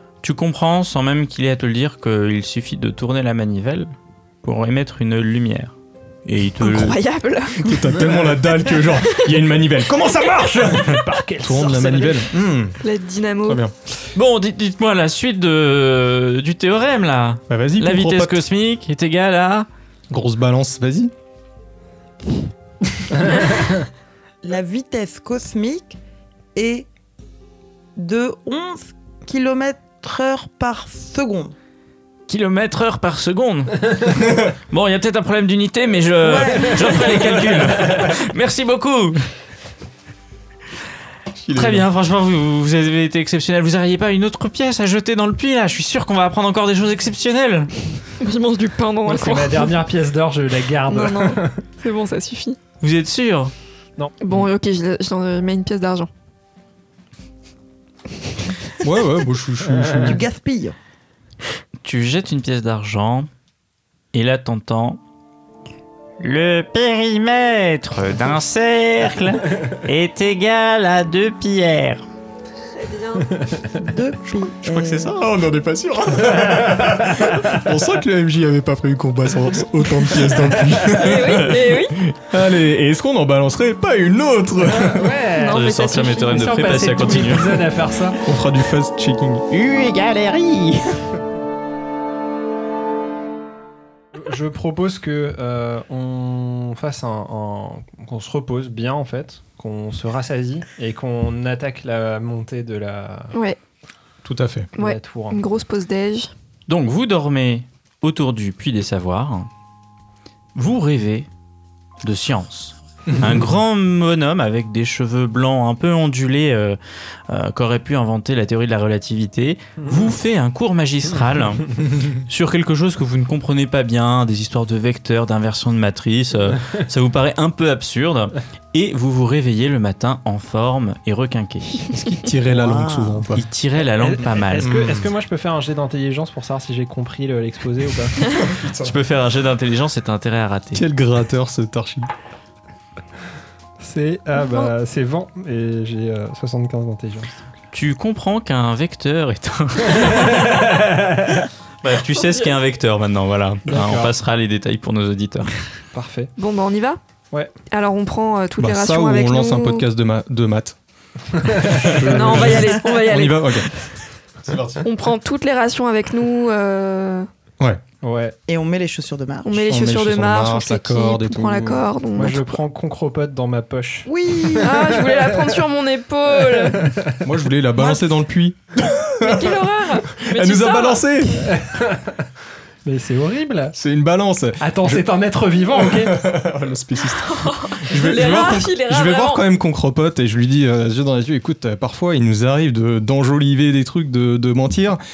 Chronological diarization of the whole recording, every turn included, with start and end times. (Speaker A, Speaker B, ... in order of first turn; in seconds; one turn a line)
Speaker A: 0.2-3.9
Speaker A: 4.4-5.7
Speaker A: 6.2-7.0
Speaker B: 6.6-7.8
Speaker C: 7.6-12.8
Speaker D: 10.1-12.3
Speaker B: 12.8-13.6
Speaker C: 13.4-13.7
Speaker A: 14.1-19.7
Speaker C: 17.5-18.4
Speaker C: 20.1-21.1
Speaker E: 24.4-26.0
Speaker E: 26.5-26.9
Speaker E: 27.9-31.5
Speaker A: 32.3-39.3
Speaker E: 36.2-37.4
Speaker C: 41.4-41.9
Speaker A: 41.5-47.7
Speaker B: 48.2-49.7
Speaker D: 49.0-51.6
Speaker B: 50.9-52.6
Speaker A: 52.8-53.5
Speaker B: 54.2-56.1
Speaker C: 58.8-60.2
Speaker D: 59.6-60.1
Speaker E: 60.0-60.8
Speaker A: 61.8-63.3
Speaker A: 64.1-65.0
Speaker A: 66.2-72.0
Speaker B: 72.7-73.8
Speaker E: 73.8-75.2
Speaker C: 74.8-85.1
Speaker B: 80.9-82.0
Speaker D: 84.7-85.7
Speaker B: 85.2-87.2
Speaker A: 85.5-87.7
Speaker D: 86.2-88.2
Speaker C: 88.2-89.4
Speaker A: 89.5-91.1
Speaker D: 94.2-103.3
Speaker C: 104.2-104.7
Speaker B: 104.8-106.3
Speaker D: 104.8-105.4
Speaker A: 106.7-109.5
Speaker A: 110.5-111.3
Speaker A: 112.0-116.8
Speaker C: 113.1-113.5
Speaker A: 117.3-131.9
Speaker C: 131.9-133.4
Speaker E: 132.5-133.3
Speaker A: 133.3-134.7
Speaker D: 133.8-138.3
Speaker C: 134.6-135.1
Speaker C: 138.3-138.9
Speaker A: 138.8-140.8
Speaker C: 140.7-142.1
Speaker D: 143.8-147.4
Speaker B: 144.3-144.7
Speaker A: 147.7-150.7
Speaker D: 150.0-151.4
Speaker A: 151.8-155.5
Speaker B: 152.2-152.4
Speaker D: 153.7-154.1
Speaker D: 155.9-156.3
Speaker B: 156.4-157.0
Speaker B: 157.7-159.8
Speaker C: 158.6-160.8
Speaker D: 161.3-162.6
Speaker C: 161.6-163.7
Speaker B: 162.0-163.7
Speaker C: 164.4-164.9
Speaker B: 164.8-167.3
Speaker D: 168.0-168.4
Speaker E: 168.5-169.6
Speaker B: 169.4-172.6
Speaker C: 169.5-171.9
Speaker D: 172.2-174.1
Speaker E: 174.1-174.9
Speaker B: 174.6-176.9
Speaker D: 174.7-175.6
Speaker D: 176.5-177.2
Speaker C: 177.2-181.6
Speaker E: 177.8-178.0
Speaker B: 179.2-181.1
Speaker D: 181.5-182.2
Speaker D: 182.8-183.8
Speaker C: 183.7-185.0
Speaker D: 184.6-186.2
Speaker C: 185.7-195.0
Speaker B: 187.1-189.4